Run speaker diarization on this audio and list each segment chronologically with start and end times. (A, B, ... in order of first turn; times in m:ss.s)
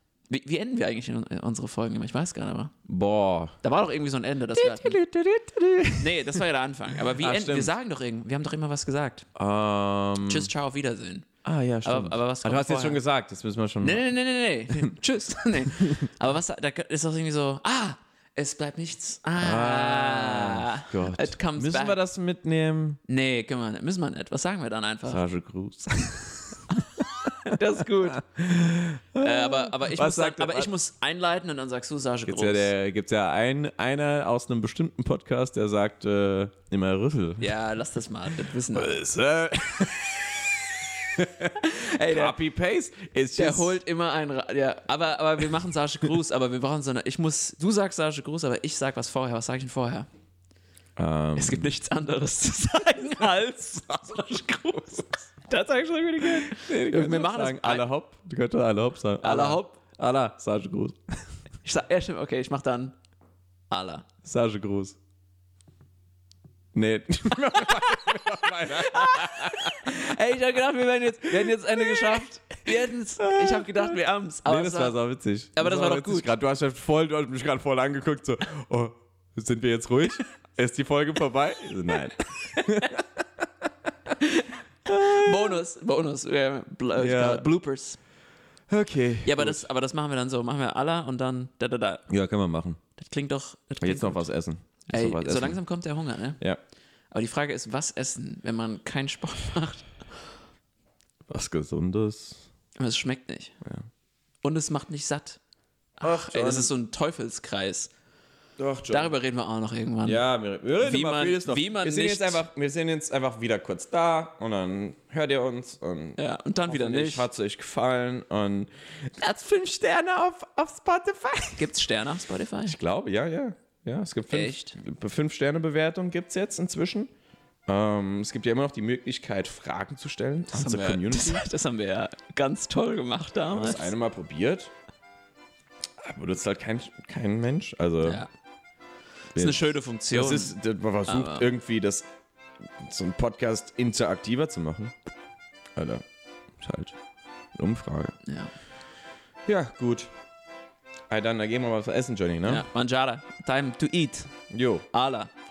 0:00.3-0:02.7 A
0:02.8-0:03.6 B
0:03.6-0:05.0 A
0:04.5-0:07.7 B
0:06.0-0:09.3 A
0:09.4-0:10.5 B
0:10.2-0:11.3 A
0:11.4-0:14.0 B
0:11.8-0:13.0 A
0:13.8-0:22.0 A
0:15.6-0:16.1 B
0:19.4-0:23.0 B
0:23.1-0:25.2 A
0:25.1-0:30.7 B
0:27.2-0:28.2 A
0:29.2-0:32.7 A
0:32.2-0:37.6 B
0:37.4-0:39.0 A
0:38.7-0:43.8 B
0:41.6-0:42.4 A
0:43.4-0:50.1 A
0:51.0-0:51.7 B
0:51.4-0:57.8 A
0:56.2-1:01.0 B
0:59.2-0:59.8 A
1:01.6-1:03.0 A
1:03.7-1:04.1 A
1:04.2-1:05.0 B
1:06.7-1:10.0 B
1:07.5-1:15.0 A
1:11.3-1:23.0 B
1:15.5-1:16.3 A
1:21.9-1:23.0 A
1:24.1-1:28.0 A
1:24.8-1:25.6 B
1:27.0-1:27.4 B
1:28.7-1:29.6 B
1:29.2-1:32.0 A
1:32.1-1:32.8 B
1:33.0-1:34.3 A
1:33.8-1:35.6 B
1:34.9-1:36.4 A
1:37.1-1:40.2 A
1:41.3-1:42.5 B
1:42.8-1:43.6 A
1:44.4-1:45.4 A
1:46.0-1:46.7 B
1:46.0-1:47.9 A
1:48.6-1:49.1 B
1:48.9-1:50.2 A
1:50.0-2:01.7 B
1:50.8-1:52.4 A
1:56.2-1:57.3 A
2:01.6-2:02.8 A
2:02.6-2:07.1 B
2:04.3-2:04.8 A
2:07.7-2:11.4 B
2:10.5-2:13.9 A
2:13.5-2:14.7 B
2:16.0-2:18.2 B
2:18.0-2:18.3 A
2:19.3-2:21.5 A
2:19.3-2:22.0 B
2:22.8-2:24.9 B
2:25.8-2:26.0 B
2:26.6-2:27.0 B
2:27.5-2:28.2 B
2:28.2-2:28.5 A
2:29.4-2:30.1 B
2:31.1-2:32.6 B
2:32.4-2:34.3 A
2:34.5-2:34.8 B
2:34.9-2:35.3 A